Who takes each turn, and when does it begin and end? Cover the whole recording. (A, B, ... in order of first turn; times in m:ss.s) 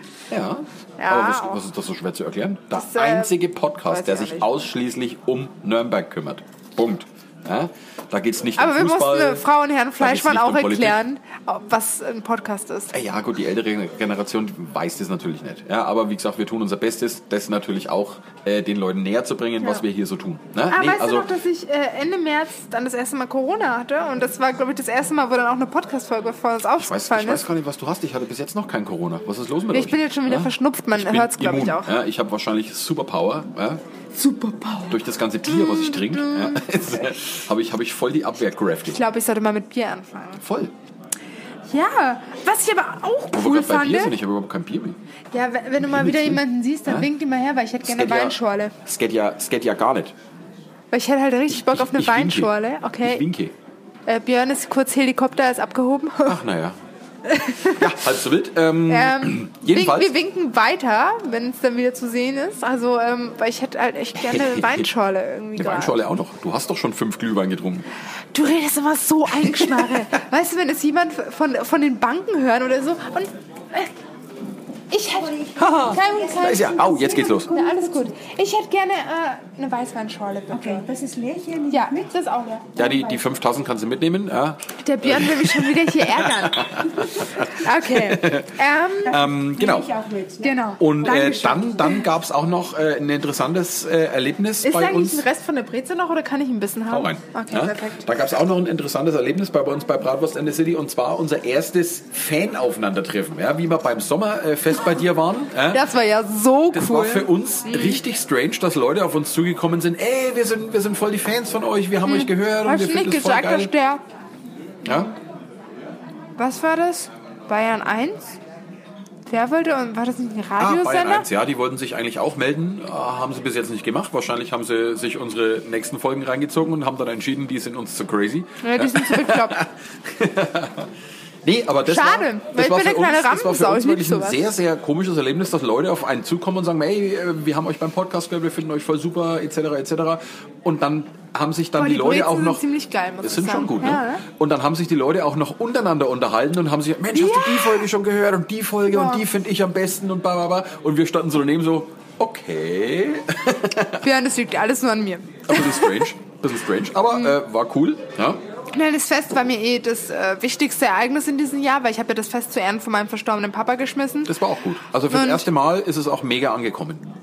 0:00.3-0:09.4 A
0:01.0-0:01.6 B
0:02.7-0:04.5 B
0:08.6-0:12.9 B
0:10.0-0:11.0 A
0:12.9-0:21.3 A
0:20.7-0:27.4 B
0:26.8-0:33.8 A
0:29.7-0:31.9 B
0:34.1-0:36.8 B
0:34.9-0:39.0 A
0:38.9-0:40.4 B
0:40.4-0:40.7 A
0:41.7-0:44.2 B
0:43.3-0:45.0 A
0:45.3-0:48.7 B
0:45.8-0:47.1 A
0:47.8-0:50.1 A
0:50.9-0:53.3 B
0:51.5-0:53.5 A
0:54.1-0:56.4 B
0:56.2-0:56.8 A
0:57.3-0:57.9 B
0:57.7-1:00.1 A
0:58.9-1:06.0 B
1:04.2-1:04.9 A
1:05.6-1:07.9 A
1:08.3-1:13.9 B
1:09.4-1:10.0 A
1:14.9-1:20.9 B
1:15.4-1:18.1 C
1:15.6-1:17.5 A
1:20.5-1:22.1 C
1:21.7-1:22.8 B
1:22.8-1:30.0 A
1:22.8-1:23.1 C
1:24.8-1:29.3 B
1:29.6-1:31.6 C
1:30.4-1:32.0 B
1:30.8-1:35.3 A
1:34.6-1:38.1 B
1:36.9-1:45.9 A
1:45.7-1:48.0 B
1:46.7-1:53.7 A
1:52.0-1:54.0 B
1:54.8-1:55.1 A
1:56.4-1:58.3 B
1:59.3-2:01.3 B
2:00.6-2:10.9 A
2:08.6-2:09.6 B
2:11.4-2:22.6 A
2:11.9-2:14.4 B
2:21.8-2:24.2 B
2:23.2-2:34.0 A
2:27.1-2:27.8 B
2:28.9-2:29.2 B
2:34.0-2:36.1 B
2:35.5-2:38.4 A
2:37.1-2:37.4 B
2:38.7-2:44.3 B
2:44.3-2:47.1 A
2:45.1-2:45.5 B